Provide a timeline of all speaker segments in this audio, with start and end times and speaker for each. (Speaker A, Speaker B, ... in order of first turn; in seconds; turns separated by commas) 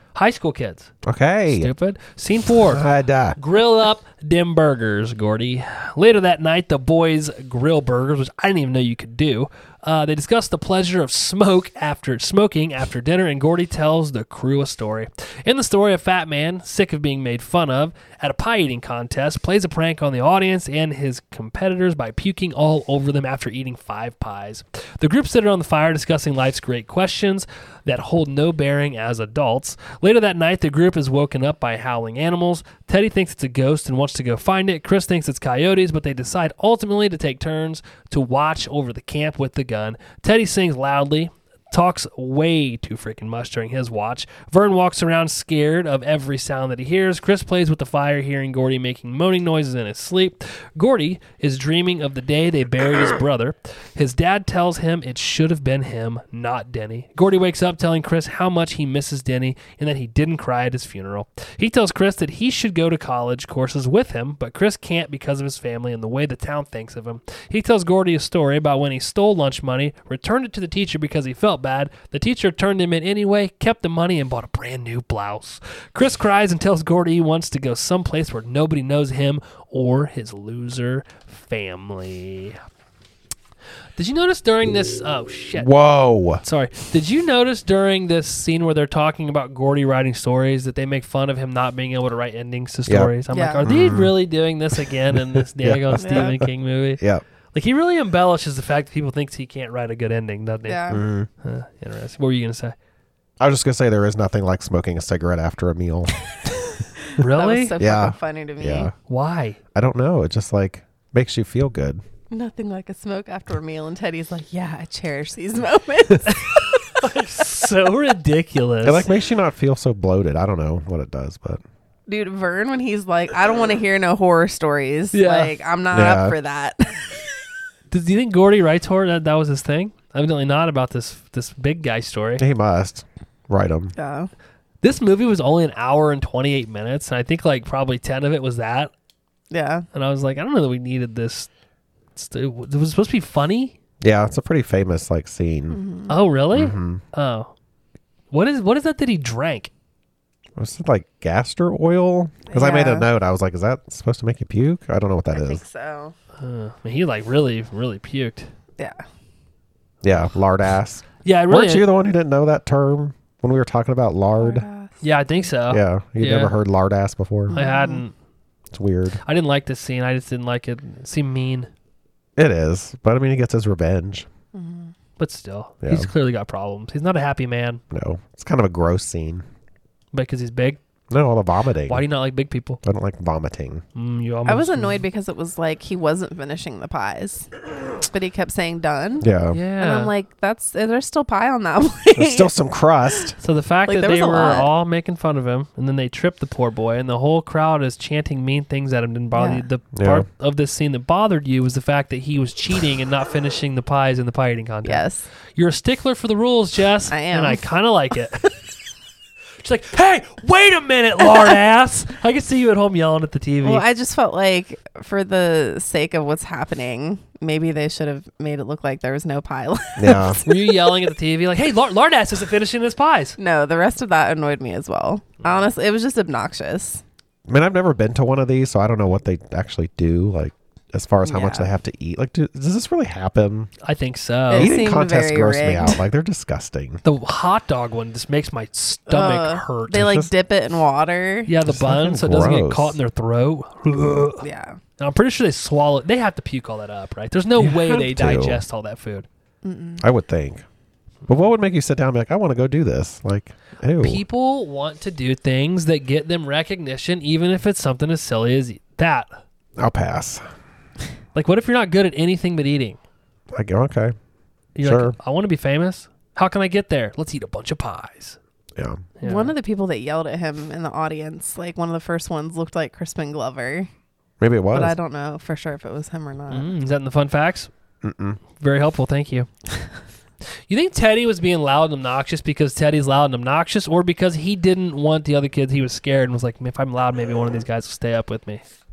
Speaker A: 0.1-0.9, Speaker B: 1.0-1.7, Speaker A: 1.5-82.6, Speaker B: 2.6-3.4, Speaker A: 84.0-85.7, Speaker B: 85.6-86.4, Speaker A: 86.4-97.0, Speaker B: 92.9-93.1, Speaker C: 93.3-93.7, Speaker B: 93.6-94.1, Speaker B: 95.1-96.5, Speaker C: 96.0-96.4, Speaker A: 97.5-102.8, Speaker C: 100.7-101.0, Speaker B: 100.9-101.3, Speaker B: 103.4-106.6, Speaker C: 107.0-108.9, Speaker A: 107.2-107.8, Speaker B: 107.8-108.9, Speaker A: 109.1-109.6, Speaker B: 109.7-112.0, Speaker C: 112.3-117.1, Speaker A: 116.3-119.1, Speaker B: 118.8-121.6, Speaker C: 122.1-127.2, Speaker A: 125.1-125.5, Speaker B: 125.9-126.3, Speaker A: 127.9-132.4, Speaker B: 132.4-133.9, Speaker C: 134.0-134.3, Speaker A: 134.8-138.9, Speaker C: 139.5-139.9, Speaker A: 139.9-141.5, Speaker A: 142.2-143.8, Speaker B: 144.0-145.8, Speaker C: 145.7-146.2, Speaker A: 146.1-147.5, Speaker B: 146.5-147.0, Speaker A: 148.3-149.7, Speaker B: 150.6-155.6, Speaker C: 152.5-153.1, Speaker C: 155.3-156.2, Speaker A: 156.4-158.5, Speaker C: 158.8-159.0, Speaker B: 160.0-164.7, Speaker A: 161.2-161.9, Speaker C: 164.4-165.0, Speaker A: 165.0-166.6, Speaker B: 165.7-167.5, Speaker C: 167.5-168.0, Speaker A: 167.5-168.1, Speaker B: 168.7-169.2, Speaker A: 169.2-171.7, Speaker B: 172.4-174.3, Speaker C: 174.5-174.9, Speaker A: 175.2-177.8, Speaker B: 175.8-176.1, Speaker B: 177.9-179.4, Speaker A: 180.1-180.8, Speaker B: 181.1-182.0, Speaker A: 181.9-182.8, Speaker B: 182.8-183.8, Speaker A: 183.9-185.0, Speaker C: 184.5-189.3, Speaker B: 189.2-189.6, Speaker A: 189.5-190.1, Speaker C: 189.8-192.5, Speaker B: 192.1-193.3, Speaker A: 193.4-208.5, Speaker C: 193.9-194.7, Speaker C: 199.3-199.7, Speaker B: 199.9-200.2, Speaker C: 204.8-205.3, Speaker C: 207.1-207.6, Speaker A: 209.6-213.8, Speaker C: 213.6-220.7, Speaker B: 220.0-220.4, Speaker A: 220.4-223.4, Speaker C: 223.4-227.0, Speaker B: 227.5-233.7, Speaker C: 231.2-231.7, Speaker A: 233.8-234.8, Speaker C: 234.5-236.0, Speaker B: 234.6-237.0, Speaker A: 237.0-240.2, Speaker C: 239.1-241.5, Speaker B: 239.9-240.3, Speaker A: 241.5-244.4, Speaker B: 241.7-243.0, Speaker C: 244.4-244.8, Speaker A: 245.0-249.3, Speaker B: 247.6-248.6, Speaker C: 249.6-250.1, Speaker B: 250.0-250.6, Speaker B: 251.3-254.2, Speaker A: 254.0-259.4, Speaker B: 259.8-260.4, Speaker A: 261.4-263.0, Speaker B: 263.5-264.1, Speaker A: 264.8-268.4, Speaker B: 264.8-265.1, Speaker B: 268.8-269.0, Speaker A: 269.2-269.5, Speaker C: 269.2-273.9, Speaker B: 274.4-275.0, Speaker C: 274.7-276.7, Speaker A: 276.5-277.7, Speaker B: 278.0-278.4, Speaker A: 278.6-279.5, Speaker A: 280.7-288.6